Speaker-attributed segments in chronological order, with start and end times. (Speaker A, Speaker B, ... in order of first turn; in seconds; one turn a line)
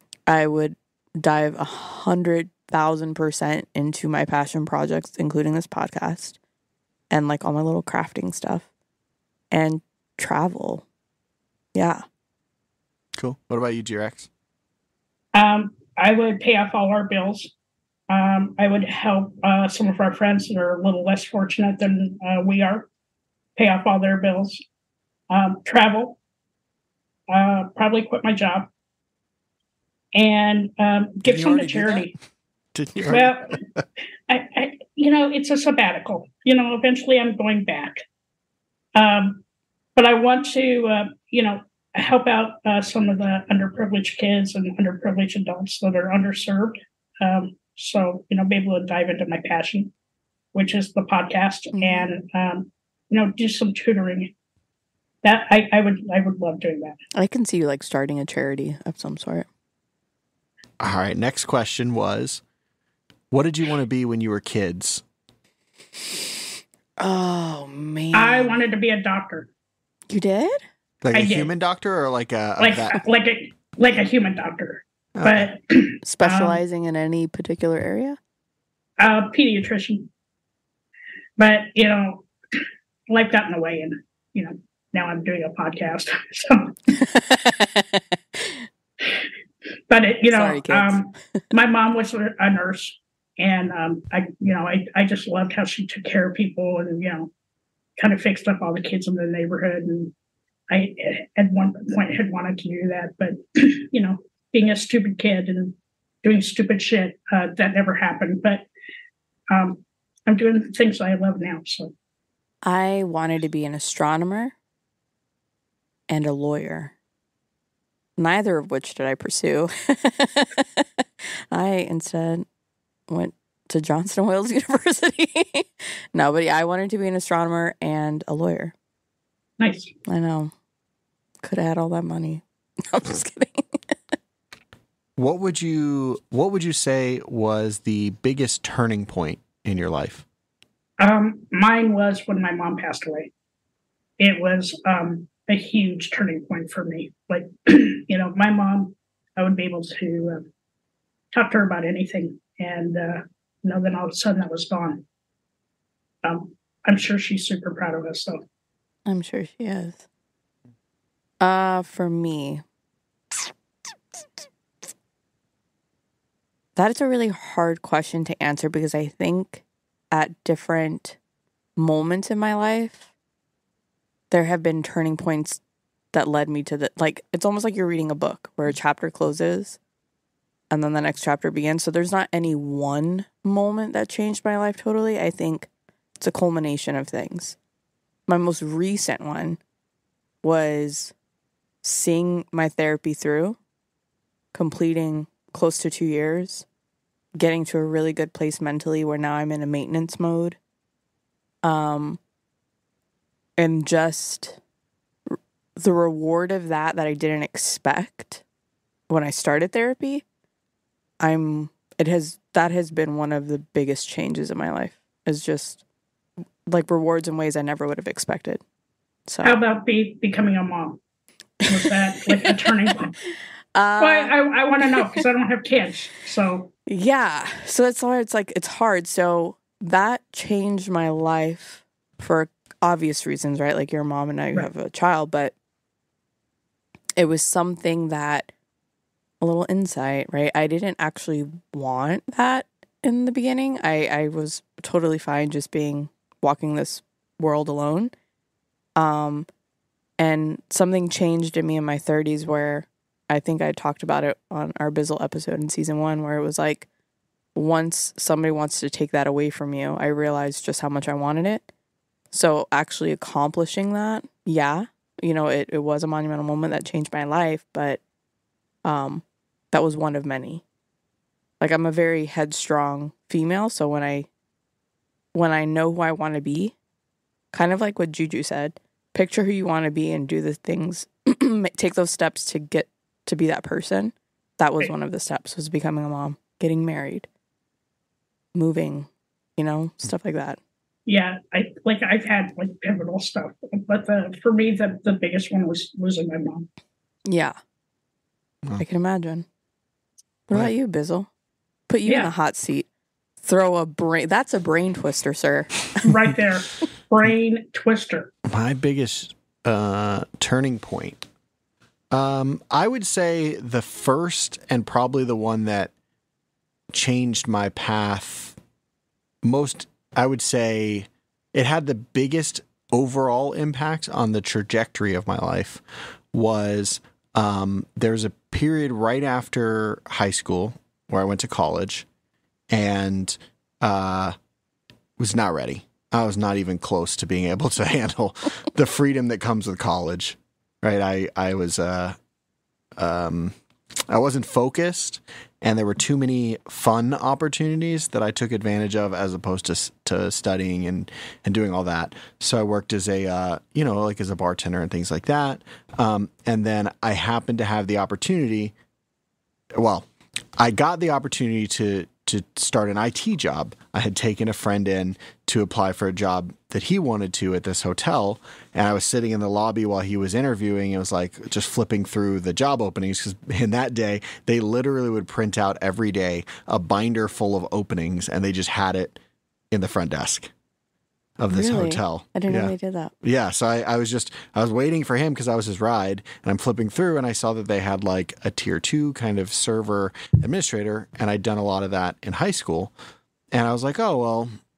Speaker A: 0.3-6.4
Speaker A: 7.1-8.7
Speaker A: 9.5-10.8
Speaker A: 11.8-12.0
Speaker B: 13.2-14.3
Speaker C: 15.3-17.5
Speaker C: 18.1-22.9
Speaker C: 23.6-24.6
Speaker C: 25.3-26.2
Speaker C: 27.3-28.7
Speaker C: 30.1-32.1
Speaker B: 31.2-32.1
Speaker B: 32.7-33.8
Speaker C: 33.0-33.6
Speaker C: 34.3-38.0
Speaker C: 39.0-39.4
Speaker C: 40.0-49.9
Speaker C: 50.5-54.3
Speaker A: 51.7-52.1
Speaker C: 55.2-57.0
Speaker A: 57.1-59.5
Speaker B: 60.8-62.4
Speaker B: 63.3-65.0
Speaker A: 67.0-68.6
Speaker C: 68.1-69.5
Speaker A: 70.1-70.6
Speaker B: 71.0-73.0
Speaker C: 71.1-71.5
Speaker C: 72.6-76.6
Speaker B: 75.2-75.5
Speaker A: 76.0-78.2
Speaker C: 79.0-80.1
Speaker C: 81.4-82.3
Speaker C: 83.1-86.7
Speaker A: 86.9-88.6
Speaker C: 89.9-97.3
Speaker A: 90.3-91.4
Speaker C: 98.0-100.1
Speaker C: 100.7-108.7
Speaker C: 109.5-111.9
Speaker A: 112.6-114.5
Speaker A: 116.1-116.9
Speaker A: 118.2-120.9
Speaker A: 121.5-122.5
Speaker A: 123.1-128.7
Speaker C: 129.6-129.9
Speaker A: 130.1-130.5
Speaker A: 131.4-134.1
Speaker B: 135.2-140.2
Speaker C: 141.0-143.3
Speaker C: 144.2-150.5
Speaker C: 151.3-155.0
Speaker C: 156.2-158.4
Speaker A: 159.1-160.1
Speaker A: 161.4-162.6
Speaker A: 166.8-171.2
Speaker A: 171.8-173.1
Speaker A: 174.3-175.6
Speaker A: 176.1-179.8
Speaker A: 180.7-185.7
Speaker A: 186.2-187.6
Speaker A: 188.3-189.6
Speaker A: 190.4-191.1
Speaker A: 191.8-193.6
Speaker A: 194.5-196.7
Speaker A: 197.4-200.6
Speaker A: 201.6-202.2
Speaker A: 203.6-204.6
Speaker A: 205.3-208.4
Speaker A: 209.1-210.2
Speaker A: 211.2-215.8
Speaker A: 216.7-218.6
Speaker A: 219.3-219.6
Speaker C: 219.4-221.0
Speaker C: 221.7-223.2
Speaker A: 221.7-222.7
Speaker A: 223.8-225.2
Speaker C: 224.0-226.7
Speaker A: 226.9-235.5
Speaker A: 237.2-238.5
Speaker A: 239.4-248.1
Speaker A: 249.0-249.5
Speaker A: 250.2-256.9
Speaker A: 257.6-261.7
Speaker A: 262.3-268.0
Speaker A: 268.8-270.6
Speaker A: 271.6-274.3
Speaker A: 275.3-276.8
Speaker A: 277.5-287.3
Speaker A: 288.6-290.6
Speaker C: 291.1-296.7
Speaker A: 297.3-297.6
Speaker A: 298.8-299.5
Speaker A: 300.5-301.3
Speaker A: 301.9-302.9
Speaker A: 303.4-305.9
Speaker C: 306.0-308.3
Speaker B: 308.4-311.3
Speaker B: 312.1-315.9
Speaker B: 316.9-318.6
Speaker B: 319.4-332.1
Speaker B: 332.7-334.4
Speaker B: 335.2-342.2
Speaker B: 343.0-343.6
Speaker B: 344.1-358.8
Speaker B: 359.7-379.2
Speaker B: 379.7-380.5
Speaker B: 381.4-392.9
Speaker A: 381.5-383.1
Speaker B: 393.5-394.5